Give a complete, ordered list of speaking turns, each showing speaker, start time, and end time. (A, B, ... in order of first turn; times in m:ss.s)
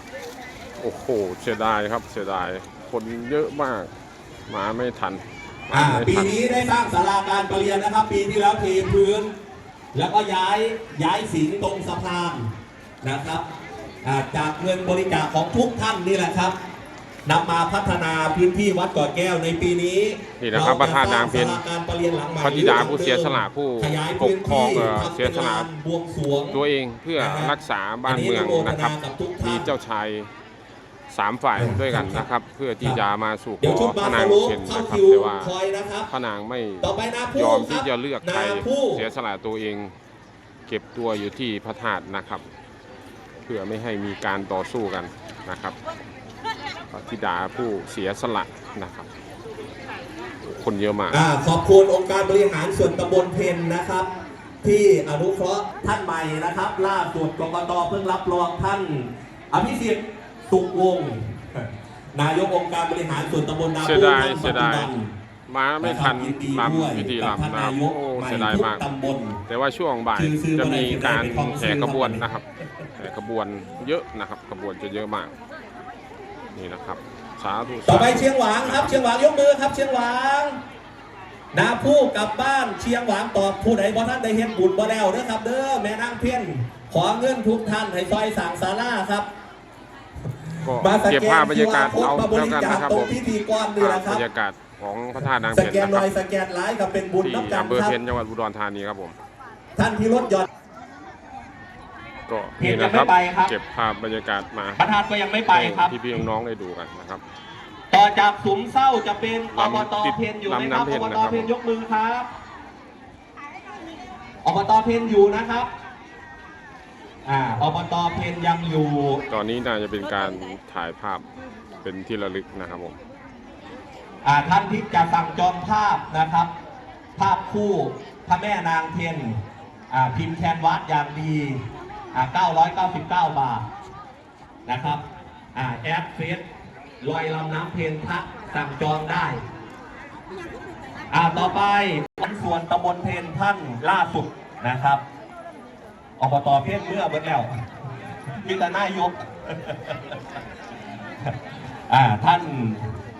0:00.8-0:03.9 A
0:04.5-0:06.4 A
0:05.7-0:09.3 B
0:09.9-0:12.5 B
0:13.0-0:13.4 B
0:14.0-0:16.5 B
0:17.2-0:26.6 B
0:20.4-0:21.6 A
0:22.4-0:25.7 A
0:26.5-0:30.3 A
0:27.2-0:27.5 B
0:28.0-0:29.7 B
0:31.1-0:35.5 A
0:31.5-0:32.3 B
0:33.6-0:36.1 B
0:36.1-0:39.9 A
0:36.8-0:39.0 B
0:40.7-0:42.4 A
0:43.4-0:45.8 A
0:46.9-0:49.1 A
0:50.4-0:51.2 A
0:51.1-0:54.1 B
0:54.6-1:05.1 B
1:03.8-1:04.9 A
1:05.5-1:08.8 A
1:05.8-1:09.4 B
1:09.5-1:12.4 A
1:10.1-1:12.2 B
1:13.0-1:15.3 A
1:16.5-1:19.0 A
1:17.8-1:20.6 B
1:21.5-1:29.3 B
1:30.6-1:33.2 A
1:30.8-1:34.2 B
1:33.8-1:36.1 A
1:35.5-1:38.0 B
1:37.2-1:39.2 A
1:39.8-1:40.5 B
1:42.3-1:44.8 A
1:42.6-1:43.5 B
1:44.8-1:46.0 B
1:45.5-1:47.2 A
1:47.9-1:52.3 B
1:49.5-1:51.5 A
1:54.4-1:55.7 B
1:57.2-1:59.2 B
1:59.3-2:01.2 A
2:01.8-2:03.0 A
2:04.2-2:06.5 B
2:07.2-2:09.4 B
2:09.9-2:11.6 B
2:12.1-2:13.6 B
2:14.7-2:15.0 B
2:15.5-2:16.4 B
2:17.0-2:19.4 B
2:21.1-2:25.0 B
2:26.2-2:27.5 B
2:28.4-2:30.2 B
2:31.9-2:32.9 B